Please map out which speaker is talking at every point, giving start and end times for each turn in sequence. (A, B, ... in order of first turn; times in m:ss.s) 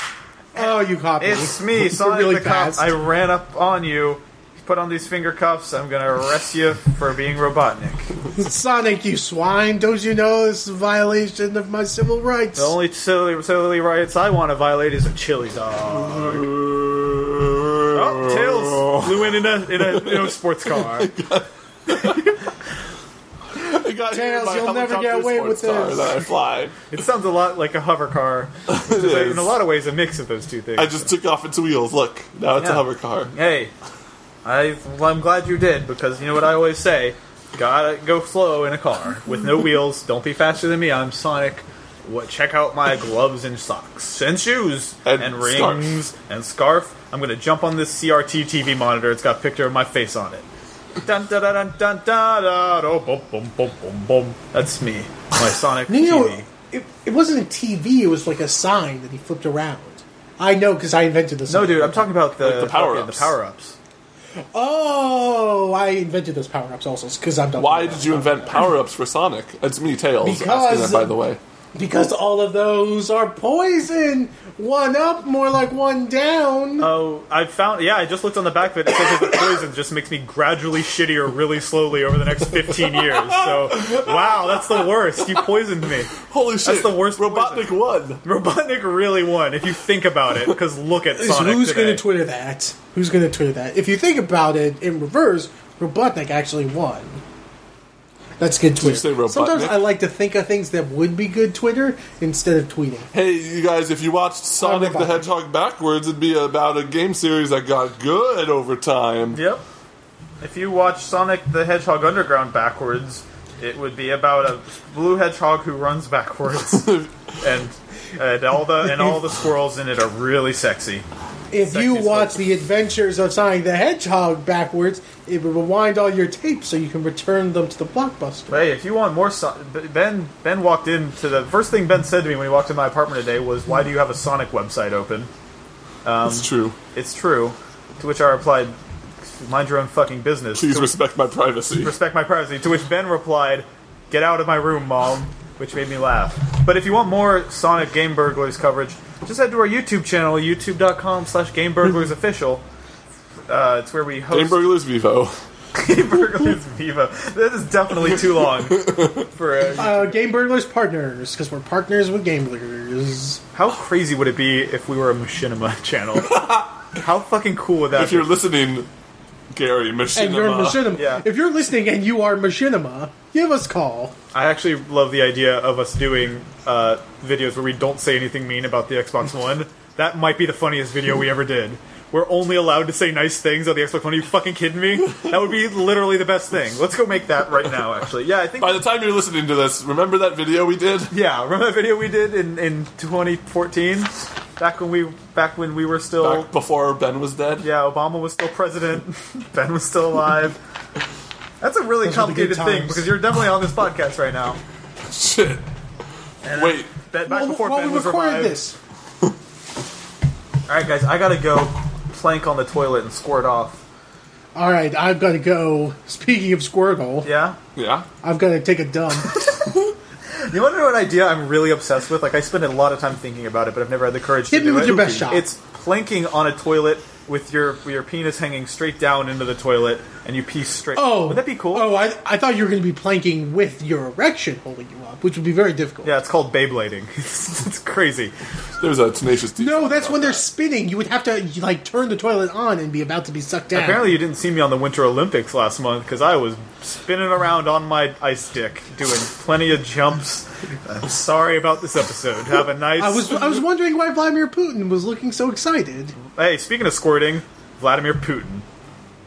0:00.5-0:08.1 A
0:00.5-0:02.9 B
0:08.3-0:12.7 B
0:12.6-0:16.4 A
0:15.9-0:22.2 C
0:17.9-0:21.1 A
0:21.9-0:22.5 A
0:23.6-0:26.8 C
0:24.1-0:26.2 B
0:26.9-0:31.1 A
0:28.7-0:29.5 C
0:30.8-0:33.3 C
0:32.6-0:33.7 A
0:34.4-0:50.4 A
0:45.0-0:45.9 C
0:51.0-0:56.4 A
0:55.9-1:02.1 B
1:01.5-1:03.8 A
1:02.4-1:03.3 C
1:04.5-1:08.7 B
1:07.6-1:11.4 C
1:10.2-1:11.2 B
1:11.7-1:16.9 B
1:16.8-1:26.1 A
1:26.2-1:28.2 C
1:26.6-1:32.0 A
1:31.1-1:37.2 B
1:38.4-1:43.1 B
1:38.8-1:39.9 C
1:43.1-1:49.4 C
1:44.6-1:45.3 B
1:49.3-1:49.6 A
1:50.4-2:01.0 A
1:56.8-1:57.1 C
2:01.5-2:08.6 B
2:01.6-2:02.4 A
2:08.5-2:15.3 A
2:16.0-2:21.0 A
2:16.2-2:16.8 C
2:20.6-2:21.9 C
2:21.8-2:32.6 A
2:33.5-2:34.6 A
2:34.3-2:35.4 C
2:35.7-2:40.2 A
2:38.5-2:39.2 C
2:39.8-2:43.4 B
2:43.5-2:46.4 A
2:46.3-2:46.7 C
2:47.0-2:48.3 A
2:47.9-2:48.9 C
2:49.5-2:50.9 C
2:50.1-2:54.1 B
2:51.0-2:51.2 A
2:54.3-3:08.8 A
3:08.6-3:11.1 C
3:11.1-3:16.5 A
3:16.2-3:17.6 C
3:17.6-3:20.6 A
3:21.6-3:24.6 A
3:22.0-3:23.1 B
3:25.0-3:25.6 C
3:26.4-3:28.6 A
3:26.5-3:26.9 C
3:27.2-3:28.8 B
3:30.7-3:33.8 A
3:34.5-3:37.3 B
3:37.2-3:37.6 A
3:37.8-3:38.1 C
3:38.2-3:39.4 B
3:40.3-3:51.9 A
3:44.5-3:45.5 B
3:50.9-3:56.1 B
3:56.0-3:58.3 A
3:58.8-4:00.4 C
3:59.6-4:04.1 B
4:03.7-4:13.5 A
4:13.0-4:16.2 B
4:16.3-4:18.6 A